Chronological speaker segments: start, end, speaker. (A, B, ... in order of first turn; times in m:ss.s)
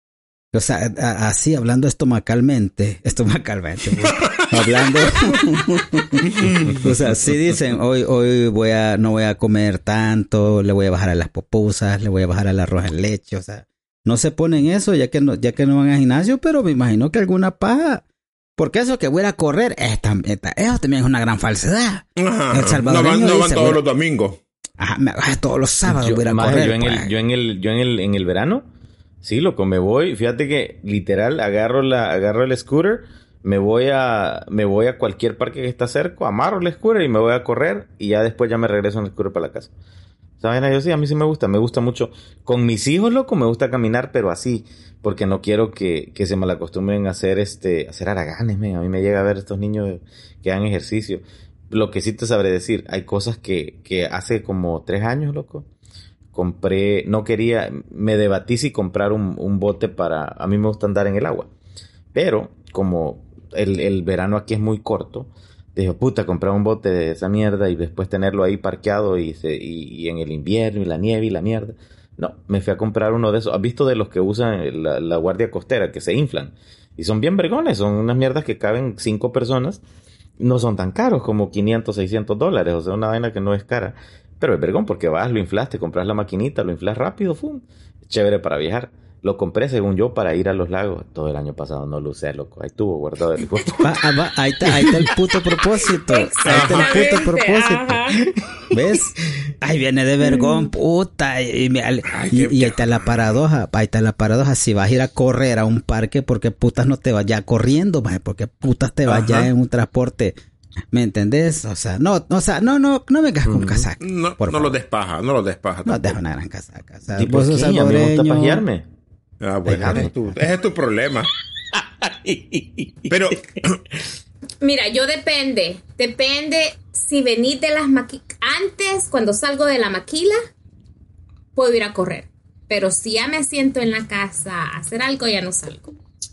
0:00.5-0:18.0 A
0:04.2-0:04.5 B
0:06.4-0:06.8 B
0:18.6-0:23.8 A
0:22.2-0:24.4 B
0:24.8-0:27.1 A
0:25.9-0:28.6 C
0:29.2-0:39.7 C
0:40.4-0:55.7 C
0:56.3-1:01.5 C
1:02.1-1:19.8 C
1:20.4-1:34.0 C
1:33.8-1:38.0 A
1:36.1-1:38.2 D
1:36.4-1:37.2 B
1:38.7-1:50.4 A
1:42.1-1:43.1 B
1:49.1-1:49.5 B
1:50.9-1:54.8 A
1:53.5-1:53.9 C
1:54.0-1:56.2 B
1:55.9-1:58.6 A
1:57.1-1:58.8 C
1:59.4-2:01.3 B
1:59.7-2:00.1 A
1:59.7-2:00.1 C
2:01.7-2:03.1 C
2:03.1-2:03.8 B
2:04.6-2:10.4 D
2:11.6-2:15.9 D